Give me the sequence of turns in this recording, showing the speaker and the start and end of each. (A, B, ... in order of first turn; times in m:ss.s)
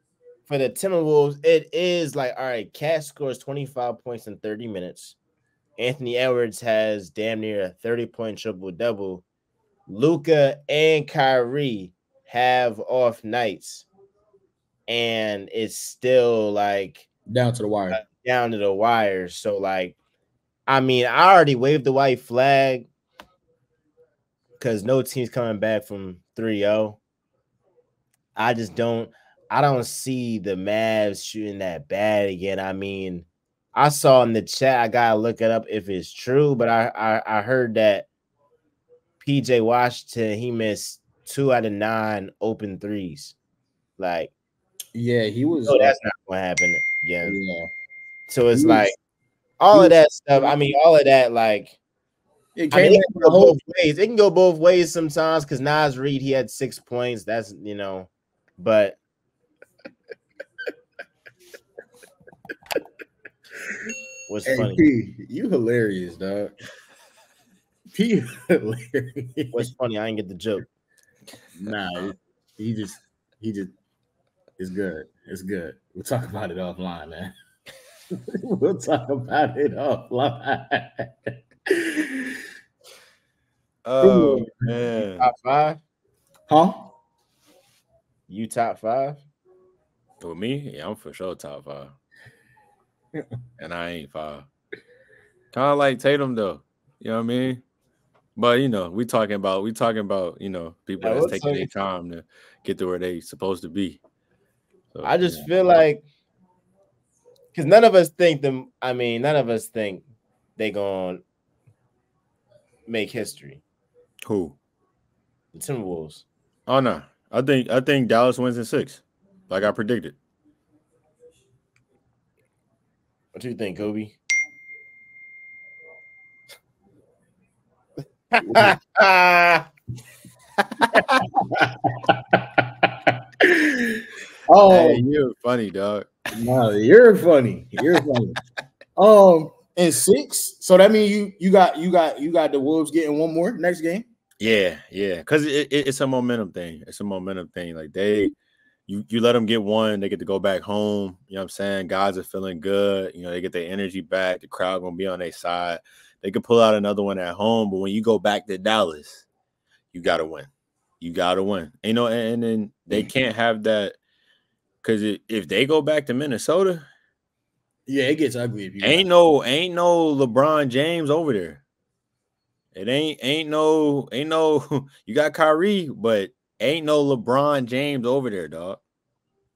0:00.5-0:05.2 A
0:05.8-0:09.2 A
0:09.9-0:13.9 A
0:14.9-0:17.1 A
0:17.3-0:18.0 B
0:17.9-0:20.0 A
0:20.7-0:22.9 A
0:24.6-0:27.0 A
0:28.4-0:38.1 A
0:39.2-0:43.4 A
0:44.0-0:44.3 A
0:44.9-0:46.0 B
0:45.7-0:47.4 A
0:47.2-0:47.7 B
0:48.3-0:49.0 A
0:48.5-0:48.9 B
0:49.6-0:51.8 A
0:49.7-0:50.6 B
0:52.6-0:53.6 B
0:52.7-0:59.0 A
1:04.3-1:04.8 A
1:04.5-1:06.5 B
1:08.0-1:09.7 B
1:09.5-1:10.7 A
1:11.6-1:13.7 B
1:14.6-1:17.3 B
1:18.5-1:21.1 B
1:21.7-1:22.3 B
1:23.8-1:25.3 C
1:24.0-1:24.7 B
1:25.2-1:25.8 A
1:26.5-1:26.9 B
1:28.3-1:29.2 A
1:30.2-1:31.9 C
1:33.6-1:34.5 C
1:35.5-1:37.6 C
1:38.4-1:44.0 C
1:41.0-1:41.7 A
1:44.9-1:45.5 C
1:45.0-1:46.1 A
1:47.5-1:50.0 A
1:50.6-1:51.2 A
1:52.9-1:53.6 A
1:54.3-1:54.6 C
1:55.5-1:56.2 A
1:56.7-2:00.2 C
2:03.3-2:04.2 A
2:08.3-2:09.7 A
2:08.5-2:08.7 B
2:11.1-2:15.0 B
2:14.6-2:16.1 C
2:16.3-2:18.4 B
2:19.0-2:24.1 B
2:24.4-2:28.3 C
2:28.9-2:39.2 C
2:39.9-2:40.5 C
2:41.0-2:44.0 C
2:44.8-2:46.9 C
2:47.9-2:49.1 B
2:48.8-2:51.6 C
2:52.8-2:58.8 C